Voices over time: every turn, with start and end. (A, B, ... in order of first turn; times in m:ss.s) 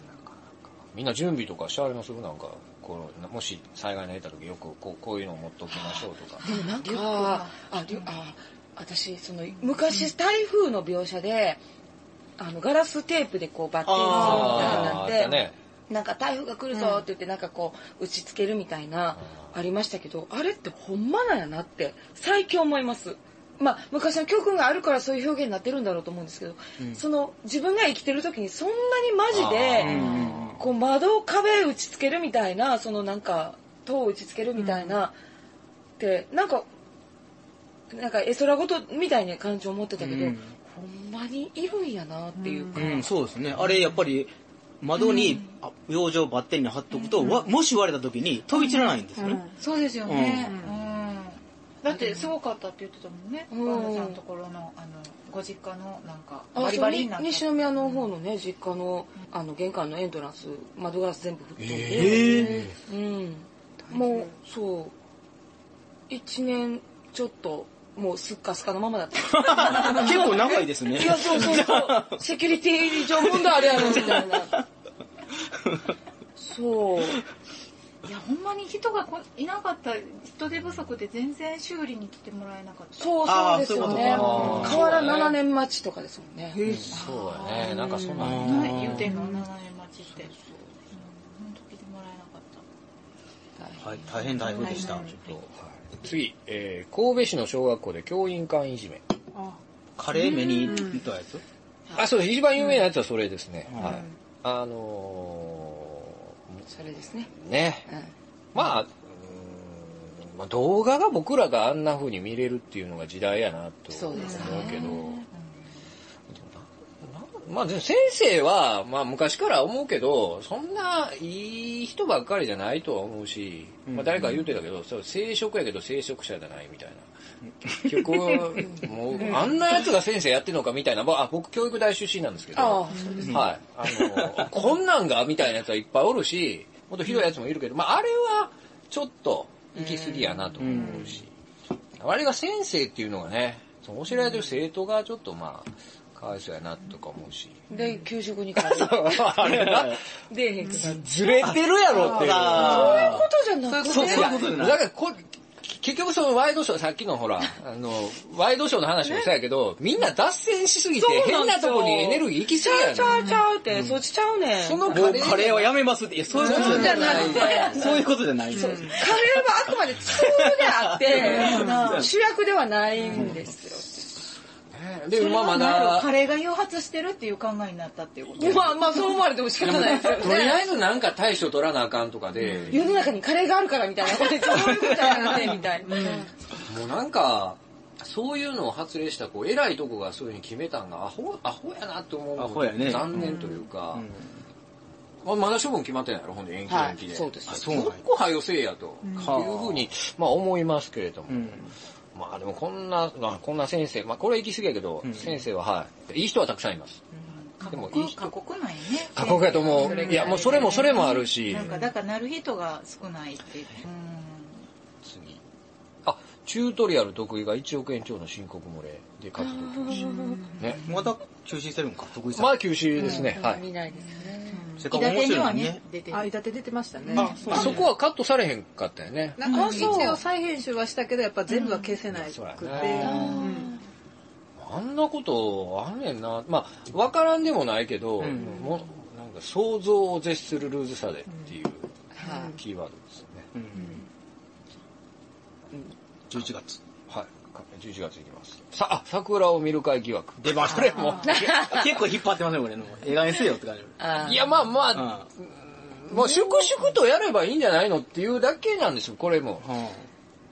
0:00.9-0:06.4 A
0:05.7-0:11.6 B
0:06.4-0:08.1 C
0:12.4-0:35.1 B
0:13.8-0:14.8 D
0:14.1-0:15.5 A
0:14.2-0:14.9 C
0:16.7-0:17.0 E
0:29.3-0:30.4 A
0:29.8-0:30.6 D
0:34.6-0:35.0 E
0:36.0-0:36.6 B
0:37.9-0:43.1 B
0:40.0-0:40.5 D
0:42.4-0:43.0 E
0:42.8-0:49.4 D
0:45.0-0:45.4 C
0:49.2-0:49.6 E
0:49.6-0:58.0 C
0:50.1-0:50.6 D
0:50.5-0:50.7 E
0:53.5-0:54.2 B
0:56.6-1:04.9 B
1:01.6-1:02.7 A
1:01.9-1:02.6 D
1:03.9-1:04.3 E
1:06.1-1:14.6 B
1:09.3-1:12.2 D
1:13.0-1:14.6 D
1:16.4-1:17.2 B
1:18.0-1:23.4 C
1:23.0-1:26.8 B
1:23.3-1:24.9 D
1:23.9-1:25.4 A
1:26.9-1:29.0 A
1:26.9-1:30.3 C
1:27.8-1:28.3 B
1:28.2-1:29.1 D
1:29.1-1:29.4 E
1:30.9-1:32.6 C
1:33.6-1:34.9 B
1:33.8-1:35.1 D
1:34.6-1:35.1 E
1:35.0-1:39.1 A
1:39.3-1:39.6 E
1:40.0-1:41.4 D
1:40.4-1:41.0 E
1:42.0-1:46.6 A
1:43.7-1:44.0 D
1:46.7-1:47.3 B
1:47.3-1:47.9 A
1:48.5-1:55.2 A
1:54.0-1:55.2 C
1:54.0-1:55.1 B
1:54.2-1:54.7 E
1:56.3-2:07.1 A
2:03.9-2:04.2 D
2:07.7-2:21.3 A
2:07.9-2:08.4 D
2:12.6-2:13.4 B
2:12.9-2:13.3 E
2:13.2-2:14.5 D
2:19.8-2:20.7 B
2:20.6-2:21.2 D
2:22.0-2:27.7 A
2:27.7-2:29.8 B
2:28.6-2:30.0 A
2:29.5-2:29.9 D
2:30.3-2:34.5 B
2:30.7-2:33.2 A
2:31.4-2:34.8 D
2:33.9-2:43.3 A
2:41.0-2:45.6 B
2:44.6-2:45.7 A
2:44.9-2:49.4 D
2:46.3-2:48.1 B
2:46.3-2:47.8 A
2:46.6-2:47.4 E
2:48.5-2:49.0 E
2:48.9-2:53.9 B
2:50.0-2:52.1 D
2:51.1-2:52.1 C
2:51.4-2:51.9 E
2:53.1-2:53.4 D
2:54.7-2:56.1 A
2:55.1-2:59.1 C
2:58.4-3:00.7 B
2:59.7-3:02.9 A
3:02.5-3:06.3 B
3:04.6-3:05.5 D
3:05.0-3:06.3 E
3:06.6-3:14.1 A
3:12.4-3:13.4 D
3:13.1-3:13.6 B
3:13.9-3:14.3 D
3:15.2-3:27.0 A
3:16.7-3:17.8 B
3:17.5-3:18.0 D
3:19.0-3:19.4 E
3:19.2-3:19.9 D
3:21.3-3:21.7 D
3:25.0-3:25.4 D
3:27.1-3:34.6 C
3:27.7-3:28.4 A
3:29.0-3:31.7 A
3:29.7-3:31.2 B
3:35.0-3:35.4 A
3:36.0-3:40.8 A
3:39.4-3:40.4 B
3:40.8-3:42.6 D
3:42.3-3:43.6 A
3:43.0-3:44.7 B
3:44.5-3:44.8 E
3:44.8-3:46.3 C
3:44.8-3:45.8 D
3:46.1-3:47.7 E
3:47.1-3:47.8 C
3:47.1-3:47.9 D
3:47.5-3:50.0 A
3:49.4-3:53.8 E
3:49.4-3:50.0 C
3:49.5-3:50.2 B
3:52.1-3:53.2 A
3:52.8-3:53.3 D
3:53.0-3:53.8 B
3:54.6-4:03.5 A
3:58.2-3:58.6 D
4:02.2-4:02.5 B
4:02.2-4:02.5 E
4:03.5-4:04.0 D
4:06.3-4:06.8 D
4:07.1-4:11.7 A
4:10.4-4:14.3 D
4:11.3-4:12.0 B
4:14.0-4:14.4 B
4:14.2-4:19.7 A
4:14.9-4:15.3 D
4:16.1-4:16.9 B
4:19.6-4:20.1 D